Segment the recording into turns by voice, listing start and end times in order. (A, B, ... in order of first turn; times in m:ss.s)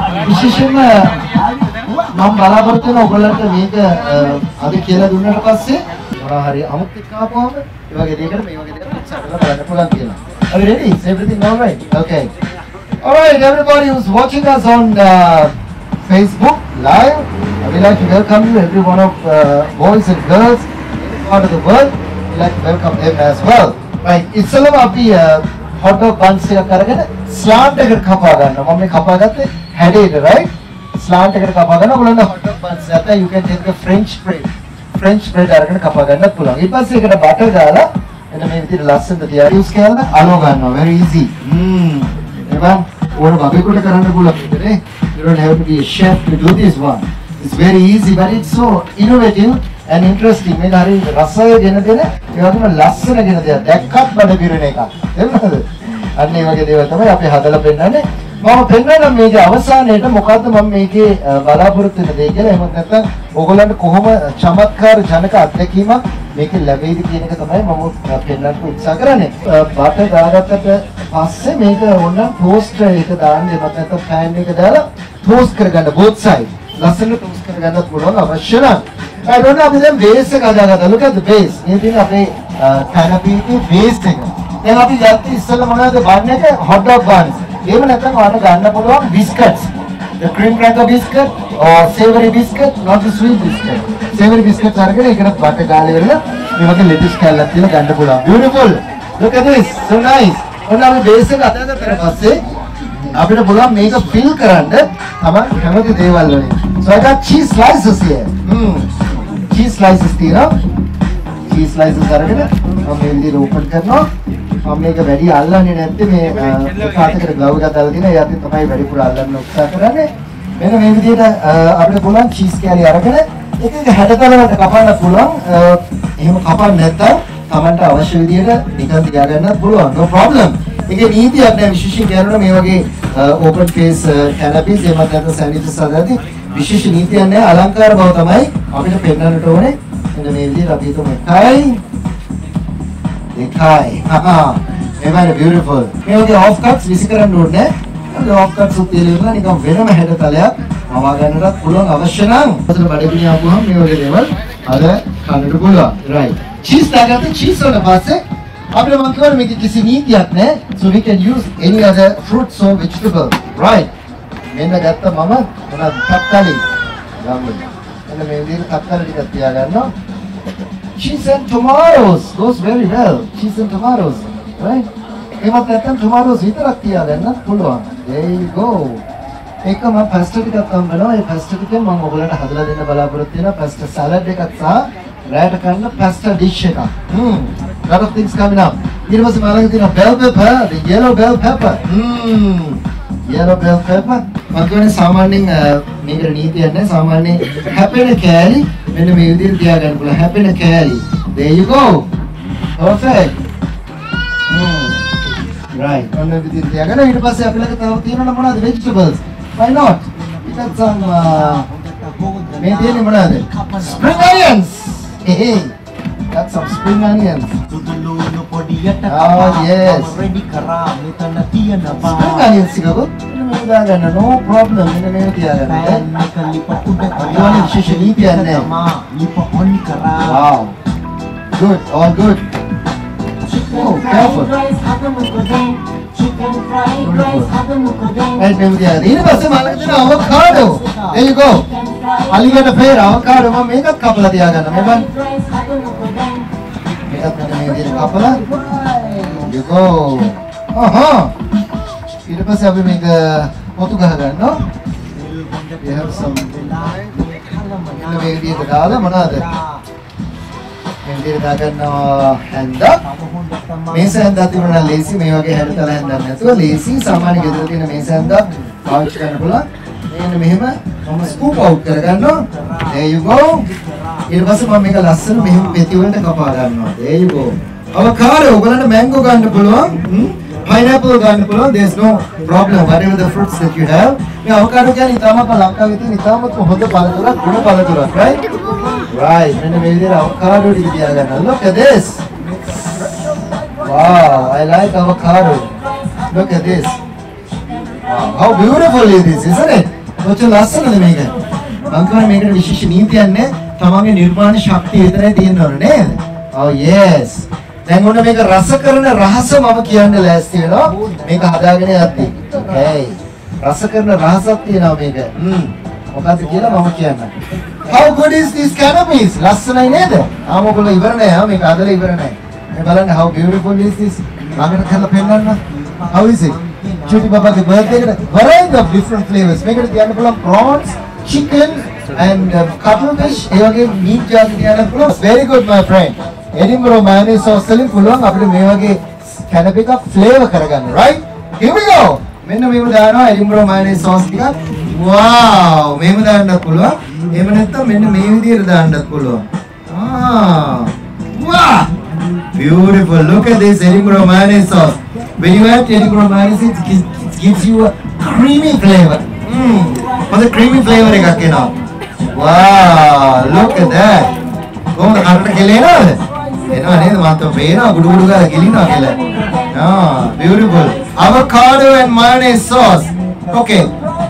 0:00.2-0:01.2 A
0:02.1-0:12.3 A
0:13.0-0:15.5 A
0:16.0-1:42.4 A
1:43.1-1:48.9 A
1:49.5-1:50.5 A
1:51.5-1:54.1 A
1:54.6-2:21.8 A
2:23.3-2:38.2 A
2:38.7-2:43.9 A
2:44.5-2:46.6 A
2:47.2-2:49.9 A
2:51.0-2:54.9 A
2:55.4-2:59.0 A
2:59.6-3:22.1 A
3:22.8-3:23.4 A
3:24.5-3:25.0 A
3:25.7-3:31.7 A
3:30.6-3:34.2 B
3:32.6-3:35.7 A
3:36.3-3:37.7 A
3:37.7-3:42.4 B
3:39.1-3:40.2 A
3:42.0-3:46.0 A
3:45.8-3:50.4 B
3:47.2-3:48.7 A
3:50.2-3:50.8 A
3:51.5-3:52.5 A
3:53.5-3:58.4 B
3:53.6-3:54.6 A
3:57.0-3:57.6 A
3:58.4-4:01.7 A
3:59.5-4:01.0 B
4:02.3-4:05.1 A
4:05.1-4:06.5 B
4:07.0-4:08.4 A
4:08.4-4:09.4 B
4:09.4-4:11.3 A
4:12.3-4:14.6 A
4:15.2-4:19.8 B
4:15.8-4:17.0 A
4:17.9-4:19.4 A
4:21.0-4:23.0 A
4:23.1-4:24.2 B
4:23.9-4:33.7 A
4:32.5-4:32.9 B
4:34.3-4:48.4 A
4:49.1-4:52.2 A
4:53.8-4:55.7 A
4:56.3-4:57.0 A
4:58.0-5:01.3 A
5:01.9-5:17.3 A
5:12.3-5:12.6 B
5:17.8-5:51.9 A
5:25.7-5:27.8 B
5:52.5-6:01.7 A
6:02.3-6:04.3 A
6:04.9-6:09.2 A
6:09.7-6:13.9 A